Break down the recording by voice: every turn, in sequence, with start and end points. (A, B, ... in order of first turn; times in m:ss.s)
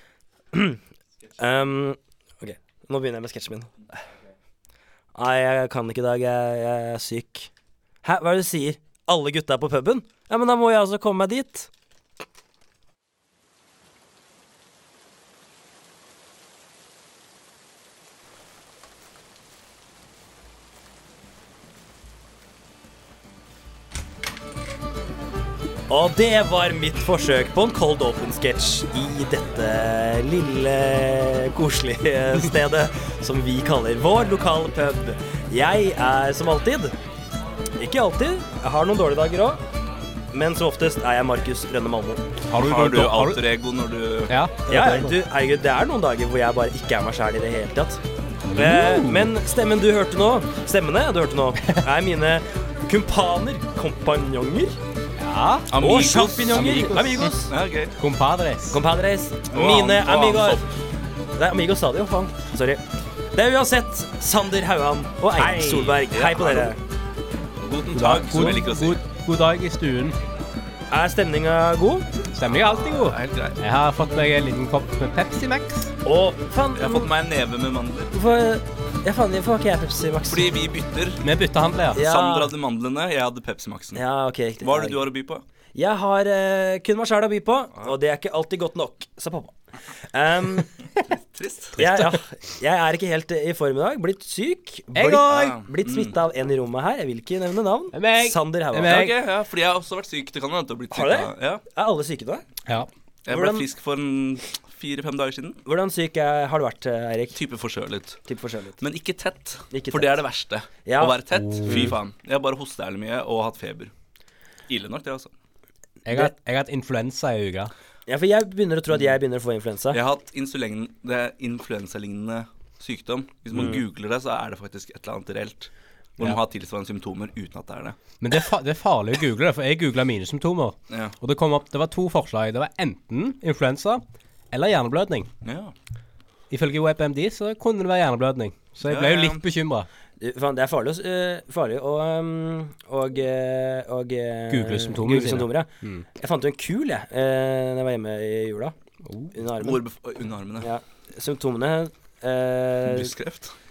0:00.5-0:00.8 A
0:01.4-0:03.7 A
0:05.1-0:07.5 A
0:08.0-0:11.7 A
0:25.9-0:36.9 A
0:37.8-0:39.6 A
0:40.3-0:42.2 A
0:42.5-0:43.4 B
0:42.6-0:44.3 C
0:44.3-0:45.2 B
0:44.7-0:48.0 A
0:48.5-0:49.3 B
0:48.5-0:54.8 A
0:55.2-0:57.4 B
0:55.7-0:57.9 C
0:55.8-0:57.5 A
0:58.0-0:58.8 B
0:58.7-1:00.7 A
0:59.5-1:00.7 C
1:01.3-1:06.8 A
1:05.3-1:06.0 B
1:06.1-1:06.7 C
1:07.6-1:09.0 C
1:07.9-1:10.2 B
1:10.9-1:12.1 A
1:12.3-1:15.9 B
1:12.4-1:13.6 C
1:16.0-1:17.1 A
1:16.7-1:18.1 C
1:18.1-1:20.5 A
1:20.3-1:21.2 C
1:21.2-1:22.0 B
1:21.9-1:22.5 A
1:21.9-1:24.0 C
1:23.9-1:25.0 A
1:24.6-1:25.4 C
1:25.7-1:30.7 A
1:31.1-1:31.8 C
1:31.8-1:39.1 A
1:31.8-1:32.2 B
1:34.9-1:35.5 B
1:35.3-1:36.1 C
1:37.9-1:39.1 B
1:38.7-1:41.6 C
1:40.9-1:42.4 A
1:43.2-1:45.6 C
1:43.3-1:43.6 A
1:45.6-1:47.4 A
1:47.3-1:48.2 C
1:48.2-1:48.8 A
1:48.8-1:53.9 C
1:49.7-1:50.2 A
1:50.8-1:51.9 A
1:51.4-1:51.9 B
1:54.7-1:55.3 C
1:56.0-1:57.7 B
1:58.1-2:00.0 A
1:59.9-2:08.0 C
2:03.5-2:03.8 A
2:08.2-2:15.3 B
2:10.9-2:11.1 C
2:15.4-2:15.7 C
2:16.5-2:19.9 B
2:18.8-2:19.4 C
2:20.2-2:28.7 A
2:24.5-2:26.0 B
2:29.0-2:29.3 B
2:29.3-2:29.8 A
2:29.6-2:30.7 C
2:30.6-2:33.1 A
2:32.8-2:33.5 C